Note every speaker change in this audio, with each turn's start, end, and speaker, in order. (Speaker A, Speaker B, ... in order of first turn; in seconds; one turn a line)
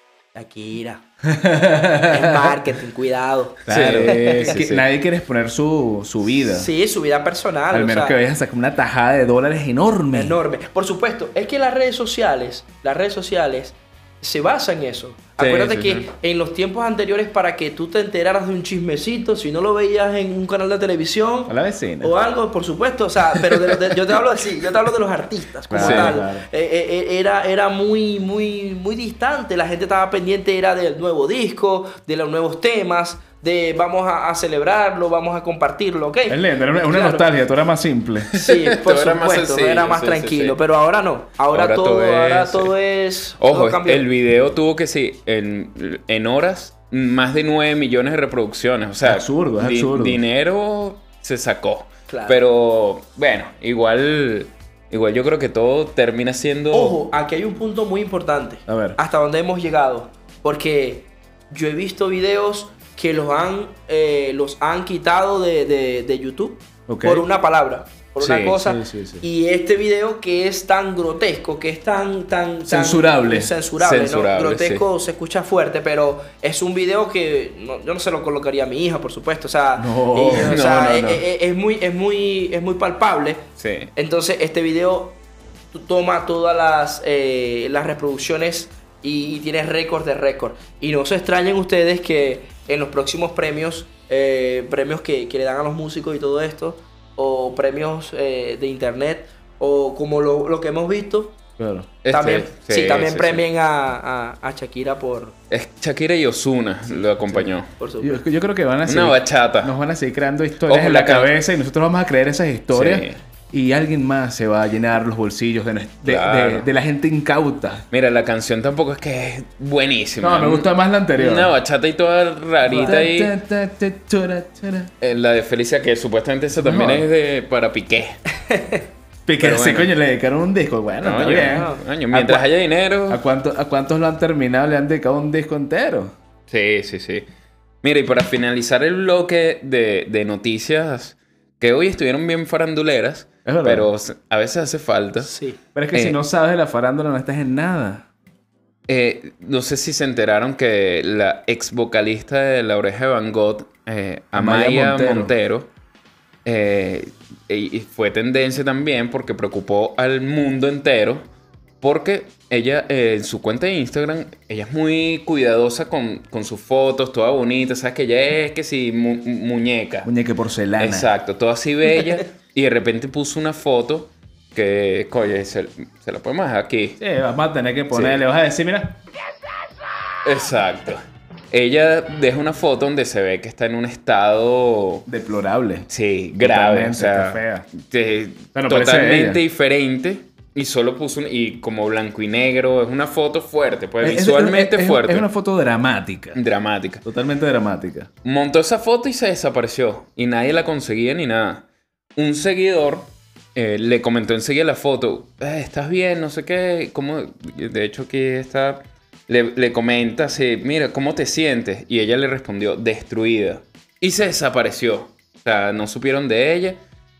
Speaker A: 0.3-1.1
Speaker B: 1.3-2.5
Speaker A: 2.1-4.5
Speaker B: 3.7-6.7
Speaker C: 3.7-4.8
Speaker A: 6.5-8.2
Speaker B: 7.7-10.4
Speaker A: 10.1-37.3
Speaker C: 15.4-16.1
Speaker B: 21.5-22.1
Speaker B: 25.7-26.4
Speaker C: 25.8-26.1
Speaker B: 36.3-38.4
Speaker A: 38.3-44.1
Speaker C: 38.4-40.6
Speaker C: 41.5-42.7
Speaker C: 43.4-57.0
Speaker B: 49.0-50.2
Speaker A: 52.1-52.4
Speaker A: 56.7-83.4
Speaker B: 58.7-59.0
Speaker B: 66.9-67.2
Speaker C: 68.2-68.6
Speaker B: 68.6-69.2
Speaker B: 72.7-73.5
Speaker C: 73.8-74.8
Speaker B: 79.8-81.0
Speaker C: 80.3-81.2
Speaker C: 83.6-83.9
Speaker A: 84.0-85.2
Speaker A: 85.7-101.4
Speaker B: 101.6-101.9
Speaker C: 102.0-103.4
Speaker A: 102.1-105.3
Speaker C: 105.5-107.7
Speaker A: 107.8-108.2
Speaker B: 108.0-117.8
Speaker C: 108.9-109.7
Speaker C: 110.7-111.3
Speaker C: 112.7-113.2
Speaker C: 116.0-116.7
Speaker C: 117.9-123.3
Speaker B: 120.2-121.5
Speaker A: 122.7-123.0
Speaker B: 122.7-124.9
Speaker C: 125.0-128.2
Speaker B: 126.5-127.1
Speaker A: 128.5-128.8
Speaker B: 129.3-132.5
Speaker C: 129.4-129.9
Speaker C: 131.0-133.2
Speaker A: 131.3-131.8
Speaker B: 133.1-136.1
Speaker C: 136.5-137.3
Speaker C: 137.8-145.4
Speaker B: 143.4-143.9
Speaker A: 145.2-145.6
Speaker B: 145.7-148.1
Speaker C: 148.9-155.7
Speaker B: 154.3-155.3
Speaker C: 156.4-161.2
Speaker C: 161.8-170.1
Speaker B: 170.0-171.1
Speaker C: 170.8-177.0
Speaker B: 177.0-179.0
Speaker C: 177.9-178.2
Speaker C: 180.2-181.0
Speaker C: 181.5-185.1
Speaker B: 185.1-185.9
Speaker C: 185.9-195.2
Speaker B: 186.4-187.7
Speaker B: 188.5-189.4
Speaker B: 194.0-196.4
Speaker C: 196.3-197.0
Speaker B: 197.0-198.1
Speaker C: 198.2-201.6
Speaker C: 202.2-216.8